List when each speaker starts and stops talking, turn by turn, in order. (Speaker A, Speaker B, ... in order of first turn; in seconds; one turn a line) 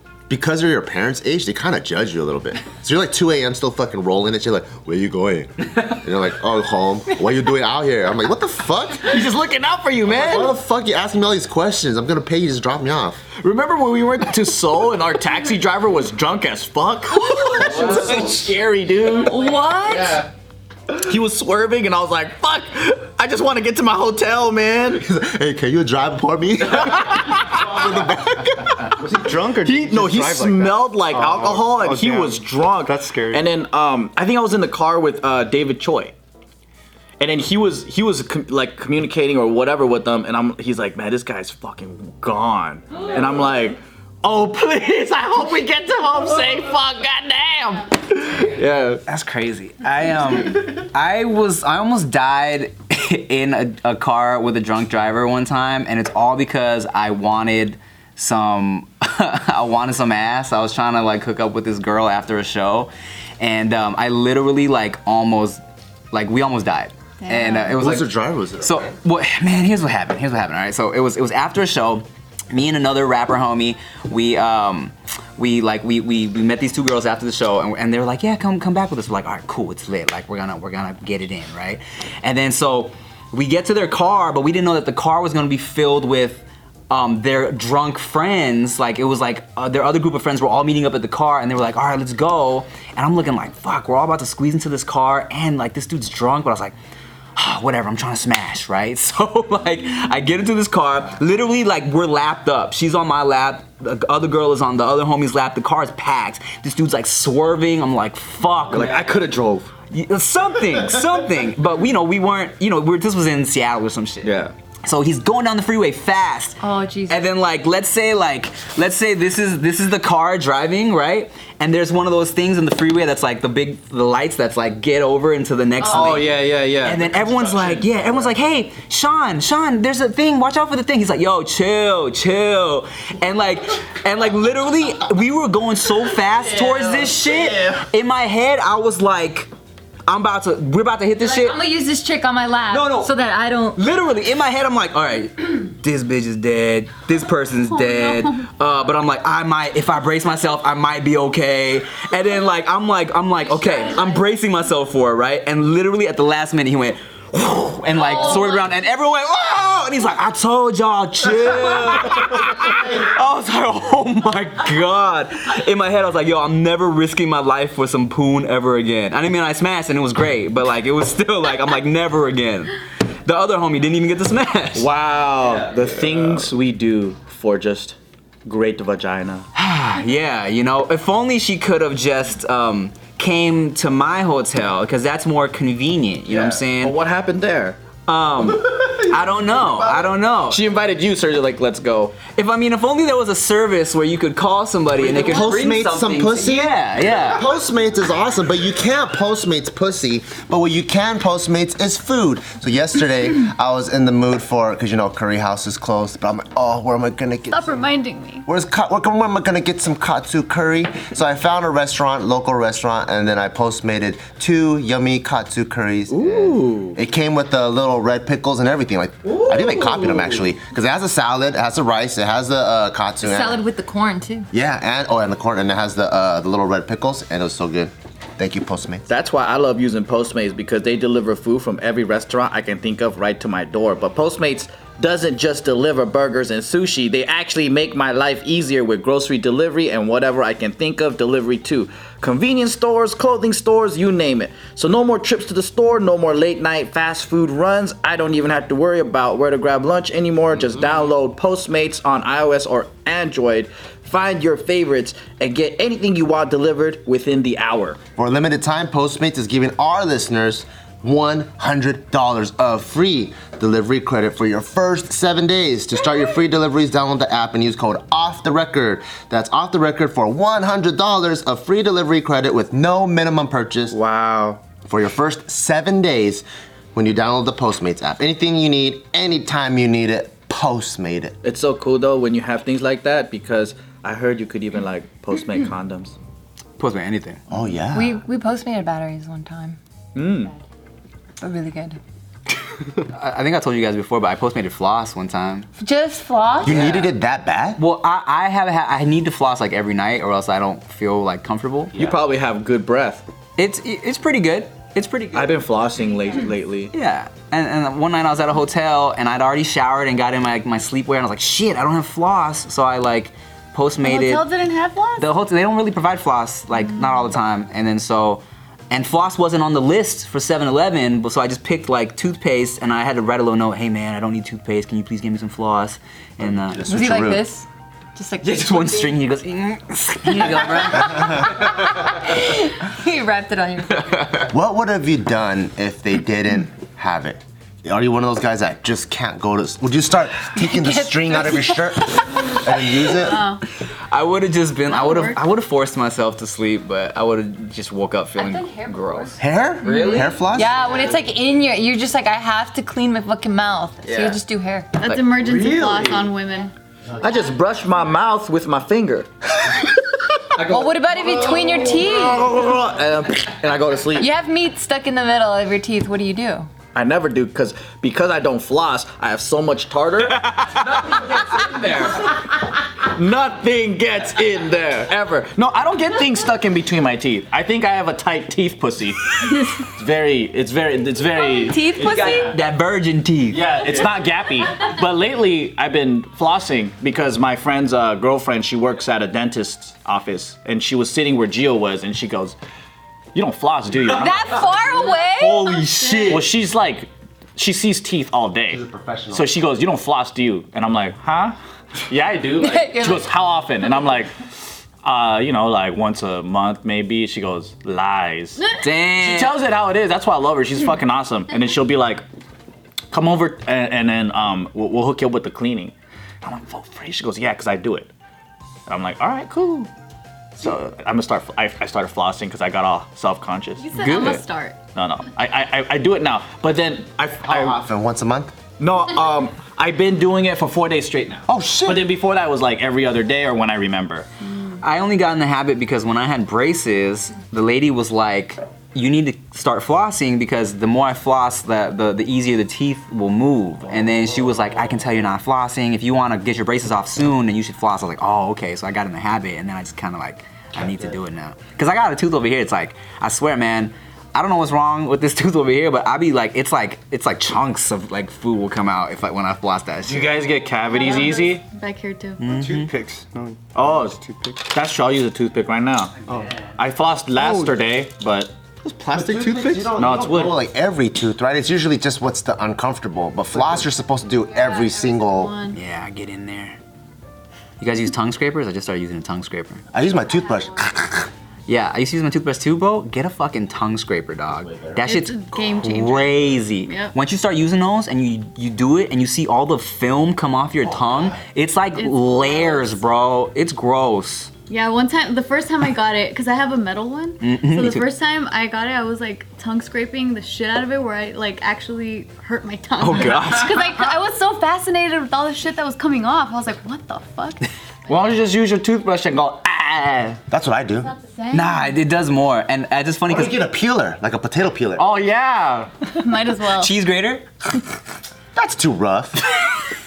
Speaker A: 0.3-9.2
Speaker B: 9.0-10.6
Speaker A: 10.1-13.2
Speaker B: 13.4-19.4
Speaker C: 19.2-20.3
Speaker B: 21.0-25.1
Speaker A: 25.0-29.0
Speaker D: 29.0-33.5
Speaker B: 29.6-36.1
Speaker B: 37.2-49.0
Speaker E: 49.1-65.6
Speaker E: 66.1-96.7
Speaker A: 67.8-68.9
Speaker E: 97.4-109.1
Speaker B: 108.7-109.7
Speaker E: 109.9-139.5
Speaker B: 114.2-114.5
Speaker C: 116.6-117.3
Speaker B: 125.9-127.8
Speaker B: 136.5-137.8
Speaker E: 140.1-141.6
Speaker C: 141.2-143.8
Speaker E: 142.7-143.1
Speaker E: 143.8-174.9
Speaker F: 147.9-148.3
Speaker B: 174.8-179.5
Speaker E: 179.6-187.0
Speaker B: 186.3-187.8
Speaker E: 188.1-190.6
Speaker B: 189.5-192.2
Speaker E: 192.3-197.5
Speaker B: 195.0-195.4
Speaker A: 195.1-207.8
Speaker F: 207.5-208.5
Speaker A: 208.5-223.6
Speaker B: 216.1-217.0
Speaker B: 219.9-220.2
Speaker C: 223.2-224.5
Speaker A: 224.5-229.1
Speaker B: 229.1-258.0
Speaker A: 258.2-274.0
Speaker B: 273.9-274.6
Speaker A: 274.9-281.4
Speaker B: 281.4-286.2
Speaker E: 286.8-287.4
Speaker A: 287.5-288.2
Speaker C: 287.9-289.8
Speaker B: 290.1-290.5
Speaker C: 291.4-292.0
Speaker E: 293.1-295.7
Speaker C: 295.8-296.8
Speaker A: 296.6-297.8
Speaker E: 296.7-297.1
Speaker E: 297.8-302.1
Speaker B: 302.0-303.2
Speaker E: 303.6-305.6
Speaker B: 305.3-306.9
Speaker E: 306.9-314.5
Speaker F: 314.0-315.3
Speaker E: 315.2-326.9
Speaker A: 326.7-327.5
Speaker C: 326.9-329.2
Speaker E: 328.4-331.7
Speaker C: 330.3-334.4
Speaker A: 334.5-343.4
Speaker C: 340.6-342.5
Speaker F: 343.2-343.6
Speaker E: 344.1-350.4
Speaker F: 344.9-345.4
Speaker C: 348.4-355.0
Speaker A: 349.4-350.9
Speaker E: 354.1-354.4
Speaker F: 355.0-356.7
Speaker B: 355.4-356.3
Speaker B: 357.2-359.3
Speaker B: 360.5-364.3
Speaker C: 360.6-362.4
Speaker C: 364.2-366.7
Speaker B: 366.9-372.4
Speaker E: 370.5-371.7
Speaker B: 373.0-382.6
Speaker C: 381.4-382.6
Speaker E: 382.0-383.7
Speaker B: 383.5-392.6
Speaker B: 393.3-394.8
Speaker C: 394.1-395.9
Speaker E: 395.4-396.4
Speaker F: 396.0-396.5
Speaker B: 396.3-401.6
Speaker A: 398.7-399.5
Speaker B: 402.1-404.3
Speaker C: 402.6-403.3
Speaker B: 405.0-412.2
Speaker F: 408.6-408.9
Speaker E: 408.8-409.6
Speaker B: 413.1-418.1
Speaker B: 418.9-419.9
Speaker B: 420.6-424.3
Speaker F: 423.8-424.8
Speaker E: 424.0-424.4
Speaker B: 424.9-427.8
Speaker A: 427.4-428.6
Speaker B: 428.8-434.3
Speaker A: 431.5-432.1
Speaker E: 434.8-460.4
Speaker B: 460.1-461.6
Speaker F: 460.9-462.4
Speaker E: 462.4-462.9
Speaker D: 462.5-464.6
Speaker B: 463.8-466.2
Speaker B: 466.8-468.5
Speaker D: 467.4-467.8
Speaker A: 468.9-475.6
Speaker B: 469.1-470.6
Speaker F: 474.4-475.8
Speaker E: 475.7-476.8
Speaker E: 477.8-479.8
Speaker A: 479.9-481.3
Speaker E: 481.7-494.5
Speaker A: 484.6-485.0
Speaker F: 485.0-487.1
Speaker F: 491.9-493.0
Speaker F: 494.7-507.7
Speaker E: 497.4-498.1
Speaker E: 503.0-504.0
Speaker B: 508.1-510.4
Speaker A: 510.5-511.1
Speaker F: 511.0-512.0
Speaker E: 511.5-513.6
Speaker A: 513.3-515.1
Speaker B: 515.0-515.9
Speaker F: 516.2-516.9
Speaker E: 516.7-517.5
Speaker A: 518.5-519.5